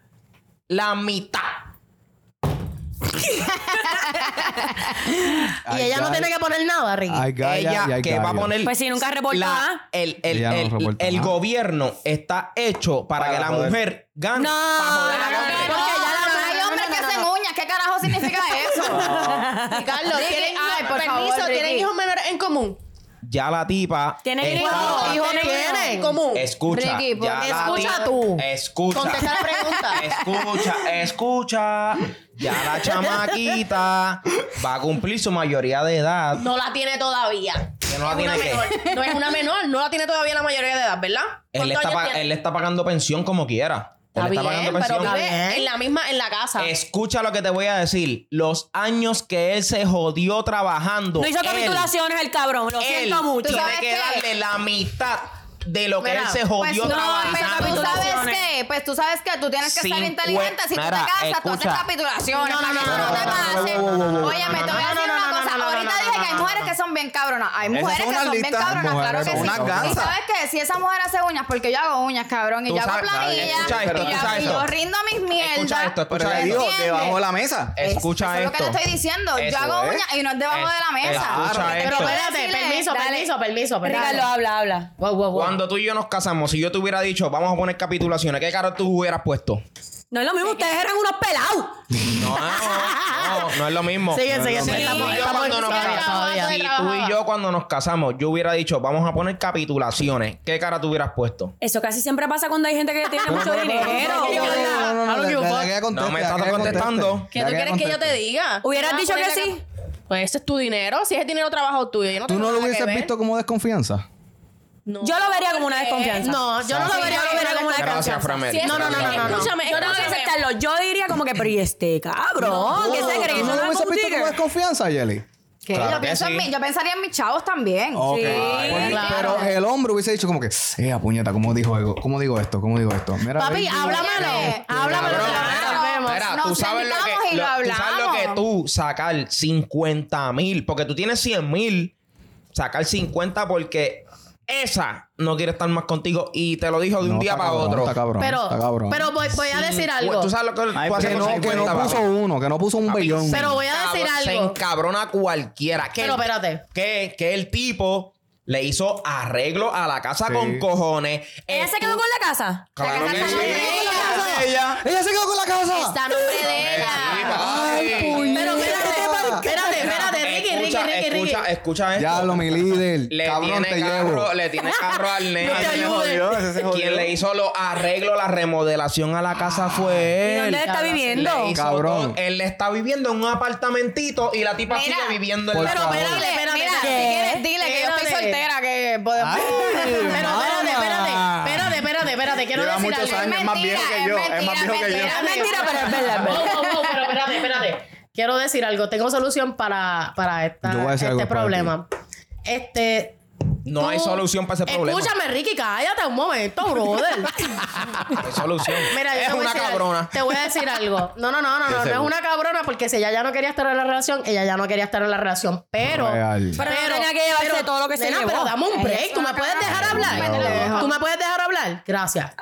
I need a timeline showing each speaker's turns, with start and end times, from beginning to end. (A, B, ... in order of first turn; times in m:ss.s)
0:00.7-0:01.6 A
0:05.7-0:06.3 B
0:05.7-0:07.3 C
0:07.1-0:08.5 B
0:07.4-0:08.8 A
0:08.6-0:09.8 D
0:09.3-0:15.8 A
0:10.3-0:11.3 B
0:13.2-0:13.8 E
0:14.3-0:17.2 D
0:15.3-0:17.1 C
0:15.6-0:19.4 F
0:19.0-0:19.8 D
0:19.6-0:22.8 G
0:20.1-0:21.9 F
0:23.2-0:25.2 A
0:24.2-0:26.2 D
0:24.5-0:26.2 C
0:24.7-0:26.5 G
0:26.3-0:36.4 A
0:26.7-0:27.9 F
0:27.4-0:28.4 C
0:27.6-0:28.3 G
0:29.0-0:29.8 C
0:29.0-0:29.9 G
0:29.4-0:30.7 F
0:36.4-0:42.2 G
0:37.9-0:38.9 A
0:38.5-0:39.1 F
0:41.5-0:45.2 A
0:44.2-0:46.7 G
0:44.2-0:45.7 C
0:46.6-0:51.9 A
0:51.2-0:53.7 D
0:52.8-0:58.2 A
0:53.4-0:54.2 F
0:56.0-0:56.4 C
0:56.5-1:17.2 F
0:56.8-0:58.4 D
0:59.6-1:01.8 A
1:02.3-1:03.8 C
1:02.8-1:04.9 A
1:02.8-1:04.6 B
1:04.6-1:06.7 C
1:07.7-1:10.2 E
1:08.6-1:10.1 B
1:12.7-1:14.7 A
1:13.1-1:14.7 E
1:15.4-1:16.7 A
1:16.1-1:17.8 E
1:17.8-1:18.8 A
1:17.8-1:23.3 F
1:19.3-1:20.0 A
1:19.7-1:20.0 E
1:20.5-1:22.2 A
1:21.0-1:22.0 E
1:21.8-1:24.3 C
1:23.8-1:24.9 D
1:23.9-1:24.2 F
1:25.0-1:25.6 C
1:25.3-1:29.6 A
1:30.1-1:31.8 D
1:32.2-1:41.5 A
1:33.0-1:33.5 C
1:34.1-1:37.1 C
1:34.3-1:35.0 B
1:34.7-1:35.3 D
1:35.1-1:36.6 G
1:41.6-1:44.9 D
1:43.2-1:48.1 B
1:43.8-1:45.7 C
1:45.9-1:47.3 A
1:47.3-1:49.6 G
1:48.6-1:49.6 D
1:50.1-1:53.1 G
1:52.3-1:54.0 B
1:54.9-2:00.4 G
1:55.0-2:04.4 D
1:56.2-1:59.8 C
1:57.8-2:00.0 A
2:02.6-2:05.2 B
2:02.7-2:03.4 G
2:05.6-2:09.6 F
2:05.7-2:06.5 A
2:07.9-2:15.5 B
2:08.1-2:09.0 D
2:08.3-2:09.0 A
2:08.8-2:09.5 C
2:13.3-2:16.3 C
2:13.7-2:18.4 F
2:14.9-2:21.9 A
2:22.5-2:28.0 A
2:27.0-2:29.1 B
2:28.2-2:30.3 C
2:29.5-2:32.1 A
2:30.7-2:32.0 E
2:31.0-2:33.6 B
2:32.9-2:42.0 A
2:33.3-2:34.6 C
2:36.0-2:36.6 C
2:40.2-2:40.6 B
2:41.5-2:44.1 D
2:42.8-2:44.2 A
2:42.8-2:44.3 C
2:42.8-2:44.1 F
2:43.1-2:44.8 E
2:43.9-2:49.4 B
2:45.7-2:51.4 C
2:46.5-2:48.2 A
2:48.2-2:49.7 D
2:49.6-2:55.9 A
2:52.0-2:54.3 B
2:55.4-2:56.4 C
2:55.4-2:57.2 E
2:56.7-3:06.0 A
3:00.2-3:01.5 D
3:00.6-3:01.2 C
3:01.5-3:02.2 B
3:04.7-3:10.5 F
3:05.5-3:06.3 B
3:05.6-3:08.4 C
3:06.8-3:07.4 D
3:09.2-3:11.8 B
3:10.1-3:13.2 C
3:12.5-3:15.3 E
3:13.0-3:16.8 F
3:14.9-3:21.9 C
3:15.0-3:16.6 D
3:20.6-3:21.7 B
3:22.4-3:23.2 C
3:23.6-3:25.1 A
3:23.8-3:27.4 C
3:28.1-3:30.2 A
3:28.9-3:42.3 C
3:31.7-3:32.1 E
3:35.8-3:36.6 B
3:36.5-3:38.5 D
3:38.7-3:41.0 F
3:39.8-3:40.7 E
3:40.0-3:40.7 B